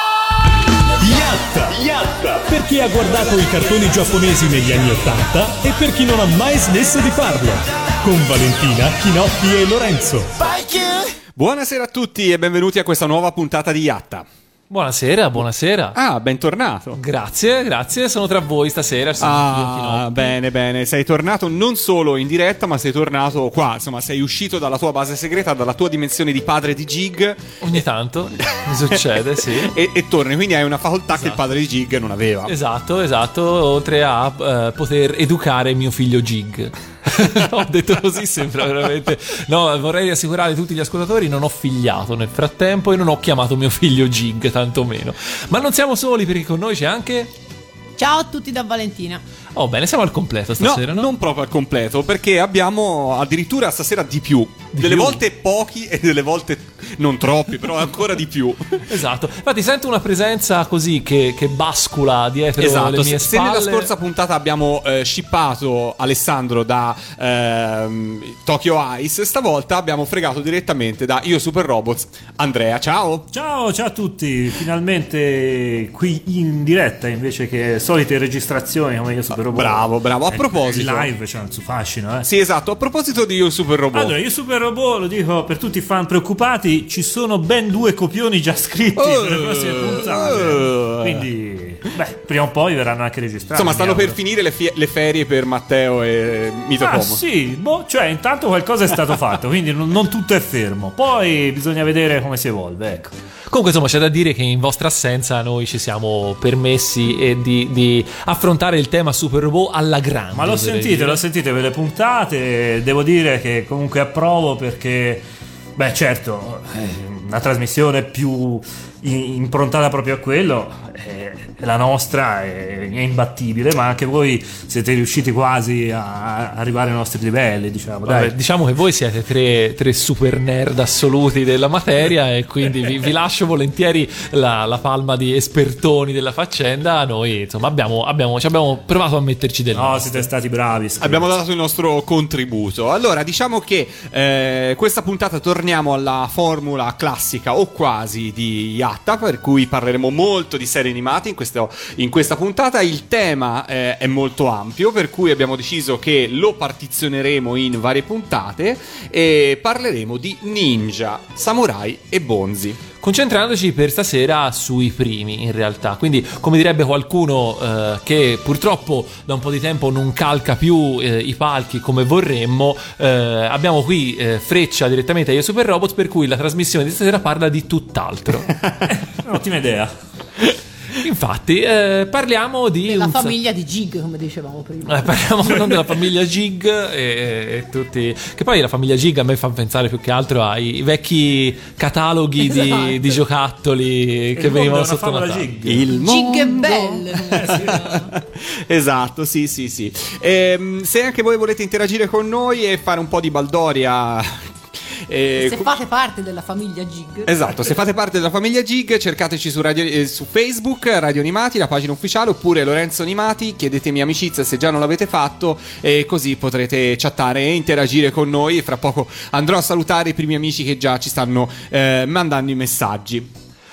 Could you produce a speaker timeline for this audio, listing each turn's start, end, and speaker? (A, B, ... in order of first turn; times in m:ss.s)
0:01.0-0:10.4 A
0:11.4-0:14.3 B
0:14.7-0:16.0 C
0:16.0-0:17.0 B
0:17.0-0:20.4 C
0:19.2-0:27.8 B
0:27.6-0:29.7 C
0:29.6-0:32.5 B
0:31.1-0:31.4 C
0:32.5-0:47.3 C
0:48.0-0:49.2 D
0:49.6-0:51.1 C
0:50.6-0:58.8 B
0:54.7-0:55.2 C
0:58.9-1:03.9 C
1:02.6-1:13.3 B
1:13.3-1:22.3 E
1:19.3-1:21.1 B
1:22.2-1:24.2 B
1:23.9-1:34.2 E
1:29.0-1:31.3 B
1:33.5-1:37.2 B
1:36.8-1:43.2 E
1:43.5-1:51.2 C
1:50.3-1:55.2 E
1:55.8-2:08.4 E
2:08.1-2:20.3 C
2:19.7-2:21.3 E
2:21.0-2:42.8 B
2:43.0-2:58.6 C
2:59.1-2:59.9 E
3:01.0-3:03.4 C
3:02.9-3:05.3 D
3:04.9-3:15.6 C
3:12.5-3:13.0 D
3:14.4-3:15.9 E
3:15.7-3:25.7 B
3:15.9-3:18.1 D
3:17.4-3:17.9 E
3:25.4-3:27.6 D
3:27.3-3:43.3 B